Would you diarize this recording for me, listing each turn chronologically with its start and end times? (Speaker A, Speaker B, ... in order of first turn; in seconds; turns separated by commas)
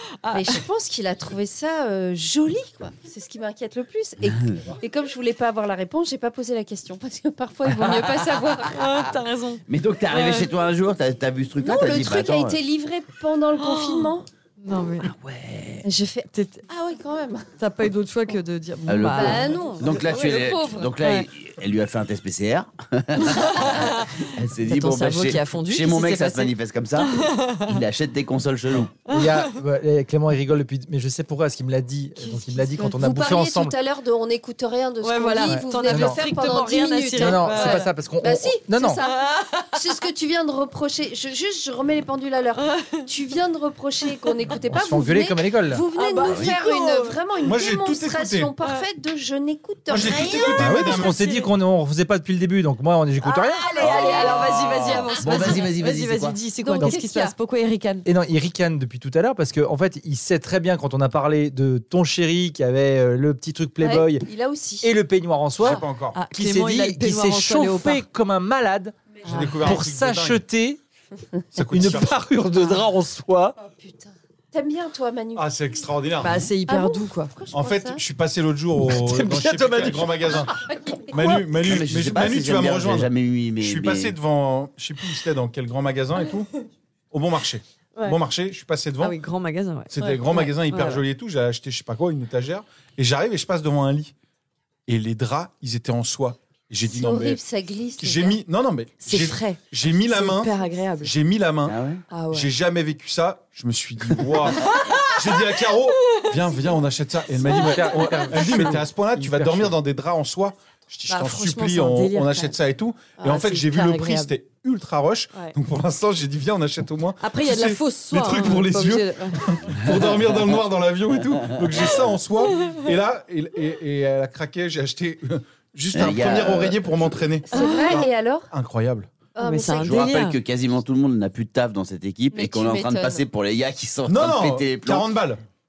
Speaker A: 0.2-0.6, Speaker B: 0.3-8.8, Speaker C: 4.3-4.6, Speaker C: 7.7-8.3, Speaker A: 8.7-10.5, Speaker C: 9.7-12.6, Speaker B: 11.6-14.2, Speaker A: 13.6-15.1, Speaker C: 15.0-15.8, Speaker B: 15.8-17.5, Speaker A: 16.3-16.6, Speaker A: 17.6-19.6, Speaker C: 18.9-28.9, Speaker B: 19.1-20.9, Speaker A: 21.0-21.3, Speaker A: 23.2-27.8, Speaker D: 29.1-33.7, Speaker A: 29.1-29.5, Speaker B: 32.3-50.8, Speaker A: 35.0-37.9, Speaker D: 35.4-36.2, Speaker D: 37.1-39.0, Speaker A: 39.0-39.8, Speaker A: 42.6-43.0, Speaker D: 44.7-45.8, Speaker A: 46.0-47.1, Speaker C: 46.2-46.5, Speaker E: 47.4-48.5, Speaker E: 49.9-51.1, Speaker A: 50.0-51.5, Speaker D: 50.5-53.7, Speaker B: 53.3-55.6, Speaker A: 53.5-58.1, Speaker C: 53.8-56.4, Speaker B: 56.6-57.3, Speaker D: 58.0-64.3, Speaker B: 63.8-64.9, Speaker D: 64.8-70.8, Speaker E: 65.6-66.2, Speaker A: 65.6-68.0, Speaker A: 69.2-69.8, Speaker E: 69.2-70.4, Speaker E: 71.5-72.2, Speaker D: 71.6-73.6, Speaker B: 73.7-75.8, Speaker E: 75.3-76.5, Speaker A: 76.2-77.3, Speaker B: 76.7-78.0, Speaker E: 77.5-86.5, Speaker D: 78.9-80.4, Speaker C: 81.6-84.2, Speaker E: 87.1-89.2, Speaker A: 89.0-91.0, Speaker E: 89.9-94.1, Speaker E: 94.9-97.4, Speaker B: 96.8-98.4, Speaker E: 98.0-101.8, Speaker A: 99.0-101.1, Speaker C: 101.7-102.0, Speaker A: 102.1-102.5, Speaker E: 102.3-129.1, Speaker A: 104.8-105.1, Speaker D: 107.4-109.8, Speaker A: 107.5-108.7, Speaker A: 111.1-112.5, Speaker A: 113.2-114.3, Speaker A: 117.2-119.5, Speaker C: 119.8-120.2, Speaker C: 125.9-127.0, Speaker B: 127.5-128.5, Speaker A: 127.5-128.0, Speaker B: 129.3-129.9, Speaker A: 129.4-130.4, Speaker C: 129.8-135.1, Speaker B: 132.3-133.2, Speaker E: 134.1-135.4